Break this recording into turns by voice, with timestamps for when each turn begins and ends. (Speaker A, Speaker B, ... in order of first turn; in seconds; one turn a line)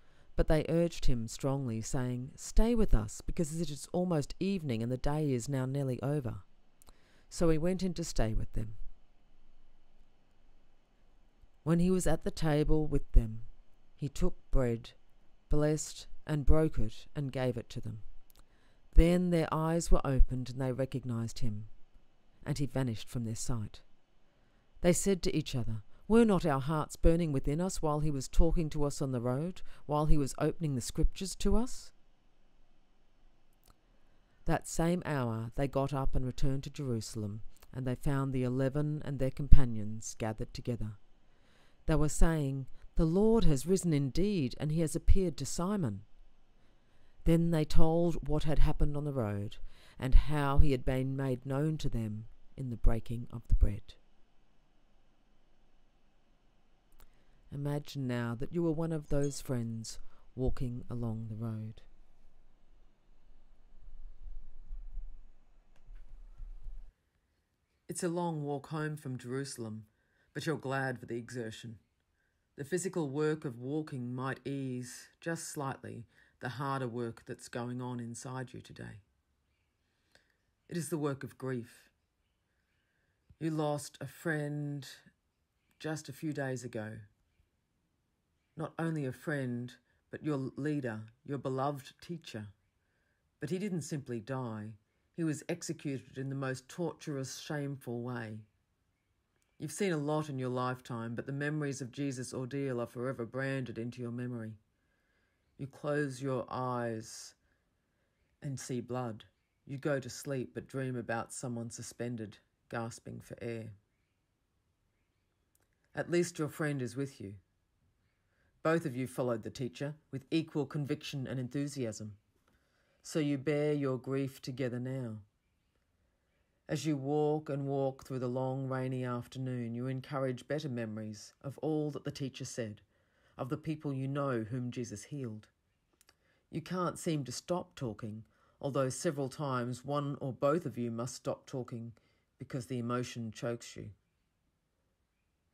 Speaker A: 0.3-6.4
Speaker A: 7.3-8.8
Speaker A: 11.6-14.9
Speaker A: 15.5-18.0
Speaker A: 18.9-21.7
Speaker A: 22.4-23.8
Speaker A: 24.8-31.9
Speaker A: 34.5-41.0
Speaker A: 41.9-46.0
Speaker A: 47.2-54.0
Speaker A: 57.5-61.9
Speaker A: 67.9-71.8
Speaker A: 72.5-79.0
Speaker A: 80.7-81.9
Speaker A: 83.4-85.0
Speaker A: 85.8-87.0
Speaker A: 88.5-92.5
Speaker A: 93.4-98.5
Speaker A: 99.6-104.6
Speaker A: 105.6-107.3
Speaker A: 108.4-113.7
Speaker A: 115.9-117.4
Speaker A: 118.6-122.2
Speaker A: 123.0-125.2
Speaker A: 126.7-132.8
Speaker A: 133.4-135.5
Speaker A: 136.5-143.9